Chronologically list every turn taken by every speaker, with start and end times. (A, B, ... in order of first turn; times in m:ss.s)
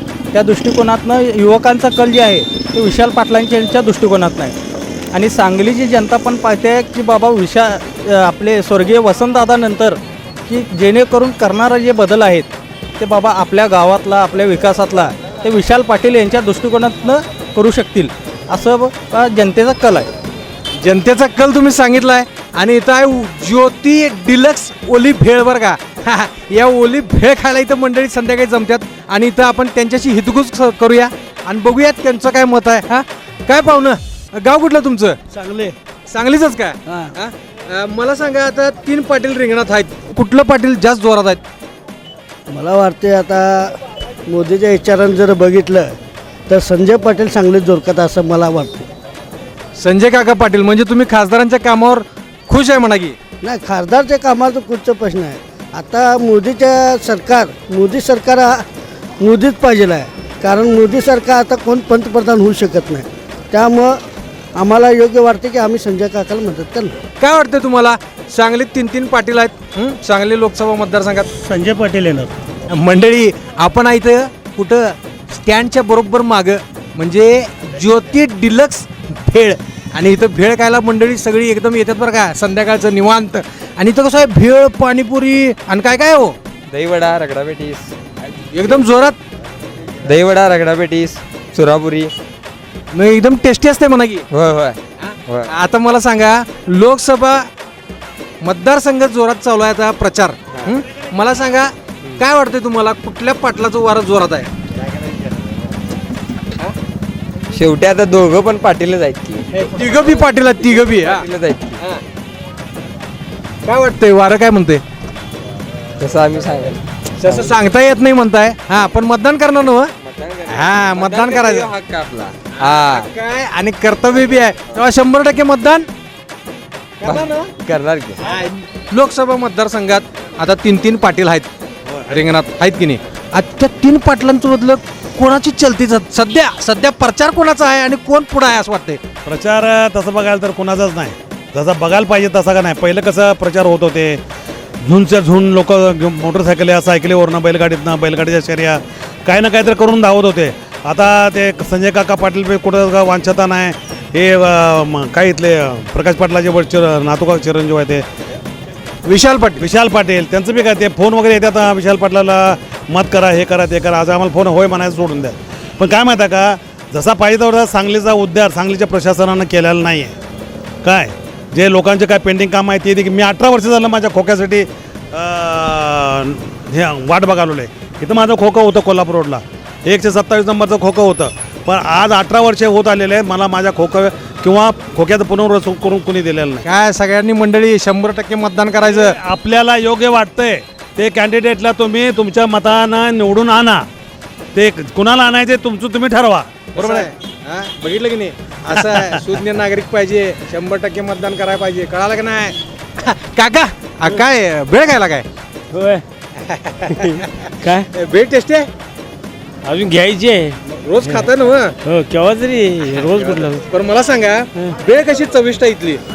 0:00.3-0:04.6 A
0:05.1-0:20.1 A
0:20.8-0:35.2 B
0:35.3-0:35.7 C
0:36.1-0:41.4 B
0:36.9-0:37.1 C
0:42.5-0:43.8 C
0:44.3-0:45.9 C
0:46.5-0:48.9 C
0:49.8-0:53.2 B
0:53.4-0:58.6 C
0:59.2-1:04.0 C
1:04.6-1:06.9 C
1:07.2-1:11.3 B
1:12.7-1:26.4 B
1:26.7-1:27.9 D
1:28.5-1:29.2 B
1:30.1-1:32.1 D
1:32.9-1:34.2 B
1:34.3-1:35.5 D
1:35.0-1:37.5 B
1:38.4-1:44.5 B
1:47.5-1:49.4 D
1:49.5-1:51.3 B
1:50.9-1:51.8 D
1:53.6-1:54.8 B
1:56.0-1:56.8 D
1:57.2-1:59.9 B
2:00.1-2:03.0 D
2:00.5-2:01.7 B
2:02.6-2:05.9 B
2:07.0-2:07.5 B
2:07.1-2:08.2 D
2:08.2-2:11.5 B
2:11.9-2:12.1 E
2:12.1-2:19.0 B
2:19.2-2:24.2 E
2:24.9-2:38.0 E
2:39.0-2:39.6 B
2:39.6-2:50.1 E
2:50.8-3:06.6 E
3:06.6-3:09.2 B
3:08.8-3:13.9 E
3:14.6-3:17.1 E
3:16.8-3:25.2 B
3:18.7-3:19.2 E
3:25.7-3:26.0 F
3:26.4-3:28.7 B
3:26.9-3:27.9 F
3:29.7-3:30.6 F
3:30.7-3:31.7 B
3:31.8-3:33.6 F
3:33.0-3:36.0 B